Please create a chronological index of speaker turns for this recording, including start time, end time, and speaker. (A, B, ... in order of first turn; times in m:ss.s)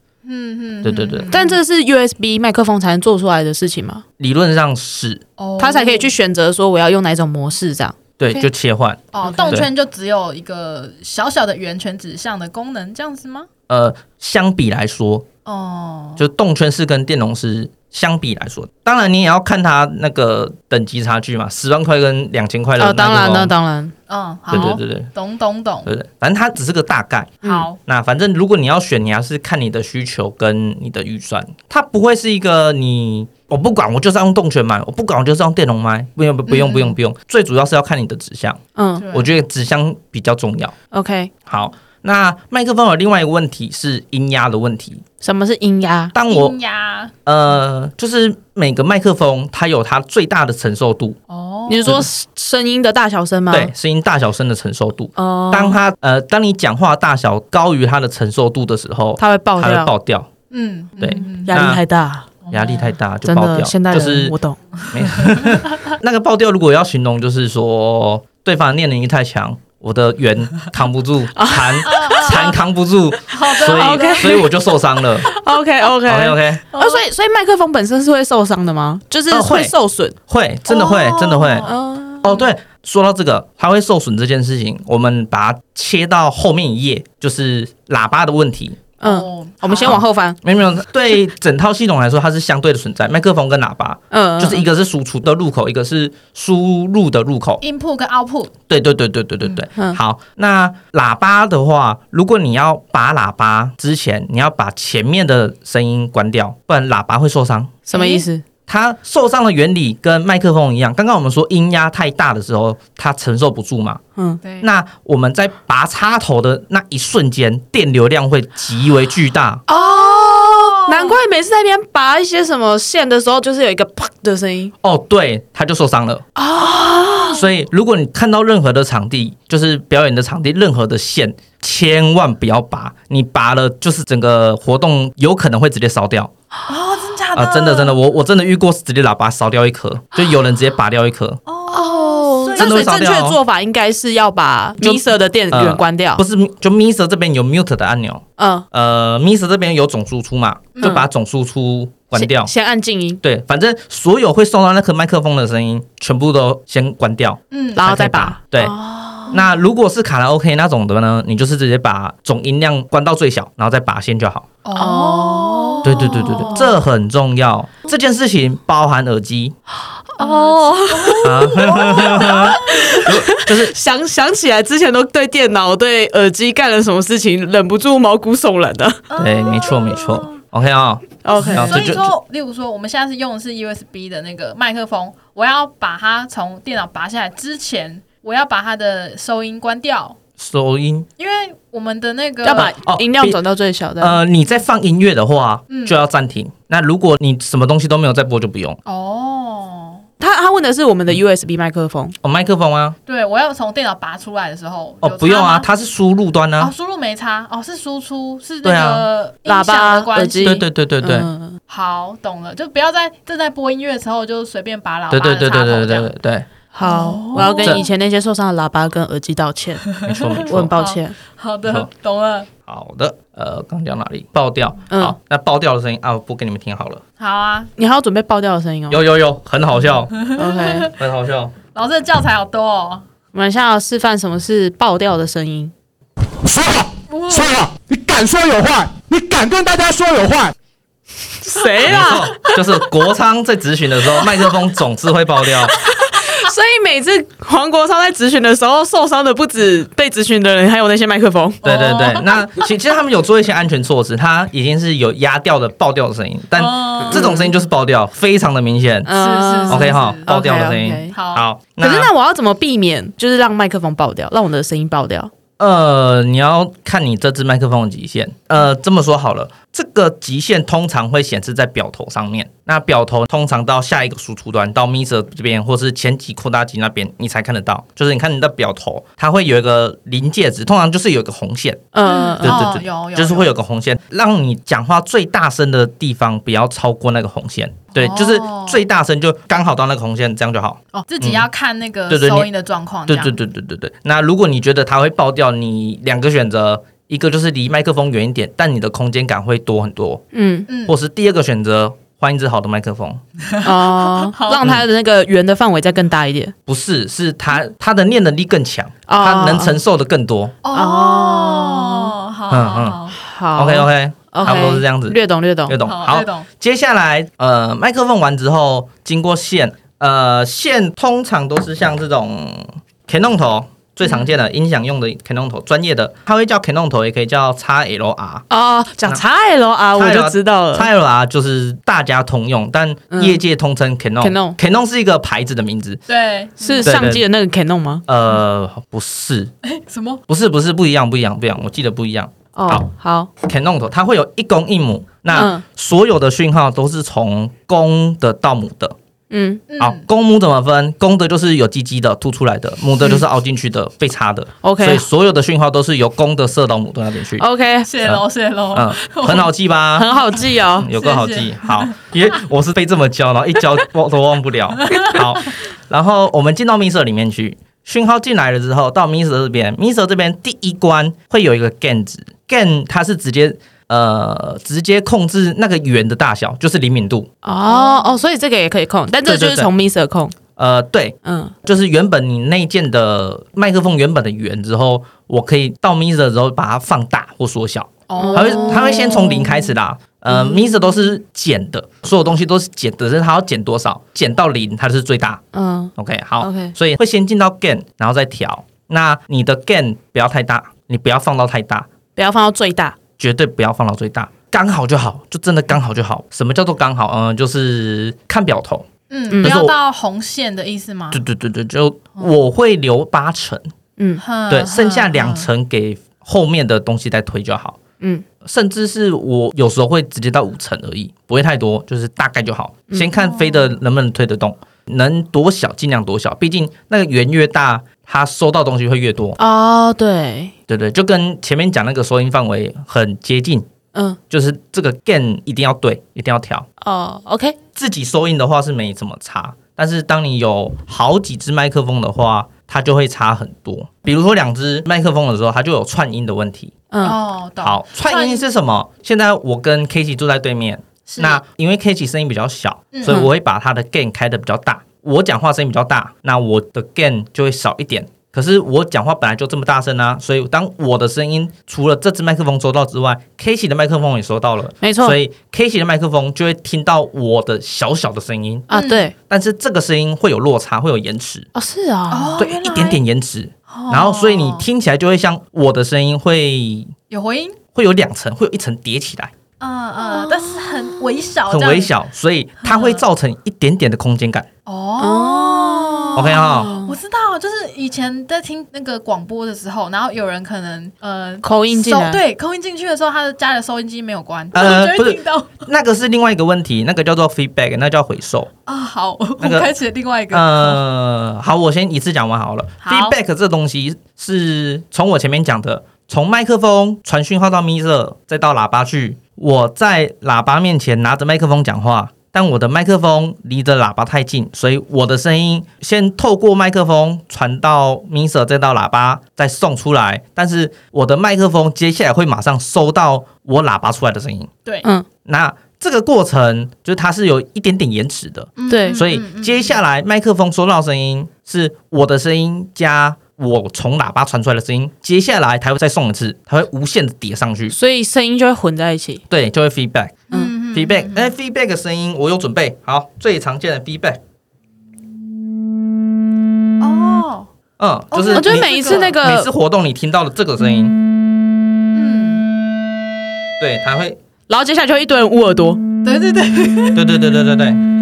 0:00.2-0:01.6 A
0:00.8-0:01.3 B
0:01.3-0:04.0 C
0:04.2-0:05.2 B
0:05.4-0:06.1 A
0:05.6-0:08.4 C
0:08.2-0:09.7 B
0:09.1-0:13.5 A
0:09.2-0:09.6 C
0:13.7-0:15.3 B
0:15.5-0:16.3 A
0:16.2-0:23.5 B
0:22.8-0:23.9 C
0:24.1-0:25.9 A
0:24.5-0:25.1 B
0:25.8-0:38.6 B
0:27.4-0:27.8 A
0:36.5-0:37.0 A
0:38.8-0:39.0 C
0:39.0-0:39.3 A
0:39.1-0:40.8 B
0:40.9-0:41.3 C
0:41.5-0:45.0 B
0:45.2-0:46.1 C
0:46.1-0:46.6 B
0:46.3-0:47.1 A
0:47.2-0:51.2 B
0:51.3-0:52.0 A
0:51.7-0:53.7 C
0:53.5-1:00.3 B
0:55.2-0:55.8 C
0:59.2-0:59.9 C
1:00.5-1:01.6 A
1:01.0-1:01.8 B
1:01.0-1:02.3 C
1:02.4-1:02.9 A
1:02.5-1:04.4 B
1:03.2-1:04.6 C
1:04.9-1:15.3 B
1:05.1-1:05.6 A
1:11.4-1:12.5 C
1:11.8-1:12.6 A
1:13.3-1:14.5 A
1:13.6-1:14.5 C
1:15.3-1:20.2 C
1:16.1-1:16.6 B
1:16.7-1:17.0 A
1:19.3-1:19.7 B
1:20.3-1:21.7 B
1:20.7-1:21.8 A
1:21.6-1:22.3 C
1:22.2-1:28.8 B
1:29.0-1:30.4 C
1:29.0-1:30.0 A
1:29.8-1:37.6 B
1:34.1-1:34.7 C
1:37.6-1:38.5 A
1:38.7-1:47.9 B
1:47.9-1:48.4 C
1:47.9-1:48.3 A
1:48.7-1:54.0 B
1:54.4-1:54.7 A
1:54.6-1:59.6 B
1:59.7-2:04.7 C
1:59.7-2:01.2 A
2:04.8-2:06.2 B
2:06.4-2:07.4 C
2:06.6-2:07.3 A
2:07.3-2:16.3 B
2:16.7-2:18.0 A
2:17.4-2:21.4 B
2:21.5-2:23.1 A
2:21.7-2:26.2 C
2:22.6-2:23.4 B
2:24.8-2:32.5 B
2:28.4-2:28.6 C
2:30.8-2:31.0 A
2:32.1-2:33.2 C
2:33.2-2:38.8 B
2:37.5-2:37.9 A
2:37.8-2:39.4 C
2:39.3-2:44.5 B
2:44.6-2:46.7 A
2:44.8-2:46.7 C
2:45.8-2:49.6 B
2:50.1-2:59.0 C
2:50.2-2:53.1 A
2:51.2-2:53.8 B
2:59.1-3:00.4 A
2:59.2-3:02.1 B
3:01.2-3:01.9 C
3:01.3-3:10.2 A
3:10.4-3:11.1 B
3:11.2-3:12.7 A
3:12.4-3:14.2 C
3:12.5-3:13.4 B
3:14.0-3:18.8 B
3:15.7-3:16.0 A
3:18.9-3:20.0 A
3:20.2-3:22.2 C
3:22.2-3:23.0 B
3:23.1-3:25.7 A
3:25.0-3:26.7 B
3:26.6-3:30.6 A
3:28.6-3:29.1 B
3:29.5-3:31.6 C
3:30.4-3:31.3 B
3:31.7-3:36.1 A
3:35.1-3:36.5 B
3:36.7-3:41.2 C
3:36.8-3:37.9 A
3:37.6-3:37.9 B
3:39.9-3:42.5 A
3:40.0-3:40.7 B
3:42.7-3:47.0 B
3:44.9-3:45.2 C
3:47.2-3:47.7 A
3:47.8-3:49.0 C
3:48.9-3:50.2 B
3:50.1-3:50.9 A
3:50.4-3:50.9 C
3:50.9-3:51.5 B
3:51.8-3:53.0 A
3:53.3-3:55.7 C
3:56.4-4:00.5 D
3:57.1-3:57.6 A
4:01.4-4:02.6 C
4:01.8-4:05.8 B
4:01.9-4:02.6 A
4:05.8-4:11.6 C
4:11.6-4:12.5 A
4:11.6-4:19.1 B
4:16.6-4:17.4 A
4:17.1-4:17.5 C
4:19.1-4:21.2 C
4:19.1-4:20.3 A
4:19.7-4:22.1 B
4:21.1-4:21.4 A
4:21.8-4:25.3 C
4:25.6-4:41.9 B
4:41.9-4:42.7 C
4:42.0-4:43.5 A
4:42.4-4:51.5 B
4:47.9-4:48.8 A
4:50.9-4:53.4 A
4:52.1-4:52.5 B
4:53.1-5:00.2 B
5:00.3-5:00.7 C
5:00.7-5:01.0 A
5:00.9-5:03.2 B
5:03.5-5:04.7 A
5:03.6-5:06.5 C
5:06.7-5:10.6 B
5:09.1-5:09.8 C
5:10.6-5:13.2 A
5:10.7-5:12.1 C
5:12.5-5:13.0 B
5:13.2-5:15.8 C
5:13.6-5:28.4 B
5:14.4-5:14.8 A
5:15.8-5:16.5 A
5:28.5-5:30.9 C
5:30.0-5:36.0 B
5:33.1-5:33.4 C
5:34.2-5:34.6 C
5:36.1-5:36.9 A
5:36.6-5:38.0 C
5:36.8-5:37.2 B
5:38.1-5:39.5 B
5:39.6-5:40.2 A
5:40.3-5:42.9 B
5:42.6-5:43.3 C
5:43.4-5:49.0 B
5:45.3-5:45.6 C
5:49.3-5:49.6 C
5:49.7-5:50.0 A
5:49.8-5:57.5 B
5:54.6-5:55.0 C
5:57.4-5:57.9 C
5:57.8-5:59.5 A
5:58.0-6:00.1 B
6:00.0-6:00.9 C
6:00.7-6:17.3 B
6:00.9-6:02.0 A
6:04.8-6:05.2 A
6:17.4-6:20.4 C
6:17.7-6:18.2 A
6:19.2-6:19.7 B
6:20.6-6:35.4 B
6:21.2-6:21.5 C
6:28.1-6:29.4 A
6:28.2-6:29.6 C
6:35.5-6:36.7 C
6:36.0-6:41.9 B
6:42.2-6:43.0 C
6:43.2-6:48.9 B
6:49.1-6:51.2 A
6:49.3-6:49.6 C
6:49.4-6:49.8 B
6:51.1-6:53.7 B
6:54.2-6:55.5 A
6:54.5-6:57.8 B
6:58.4-7:09.4 B
7:03.2-7:03.7 A
7:09.4-7:10.5 C
7:10.7-7:13.7 B
7:14.3-7:16.7 B
7:16.8-7:17.6 C
7:17.8-7:26.8 B
7:26.9-7:27.2 C
7:27.0-7:28.4 A
7:27.6-7:48.7 B
7:31.1-7:31.4 A
7:32.9-7:33.2 A
7:44.8-7:45.2 C
7:48.7-7:49.1 C
7:48.7-7:49.1 A
7:49.2-7:51.5 B
7:51.6-7:52.4 C
7:52.1-7:53.0 A
7:52.4-7:56.9 B
7:53.7-7:54.7 A
7:57.1-7:57.6 A
7:57.8-7:59.3 B
7:59.6-8:01.9 A
8:00.0-8:01.2 C
8:01.5-8:04.5 B
8:02.6-8:03.0 A
8:04.7-8:15.6 A
8:05.0-8:07.0 C
8:06.2-8:06.7 B
8:11.4-8:12.2 C
8:14.5-8:18.5 B
8:18.7-8:20.8 A
8:19.4-8:19.7 B
8:20.3-8:44.5 B
8:22.8-8:23.2 A
8:45.2-8:57.8 B
8:48.6-8:49.8 A
8:48.7-8:49.0 C
8:57.7-8:59.2 C
8:59.3-9:04.2 B
9:00.3-9:01.3 A
9:06.8-9:07.5 A
9:07.8-9:11.0 B
9:08.1-9:09.2 A
9:08.3-9:09.5 C
9:11.9-9:12.5 A
9:13.6-9:14.2 B
9:14.5-9:15.8 C
9:16.0-9:17.0 A
9:17.0-9:17.8 B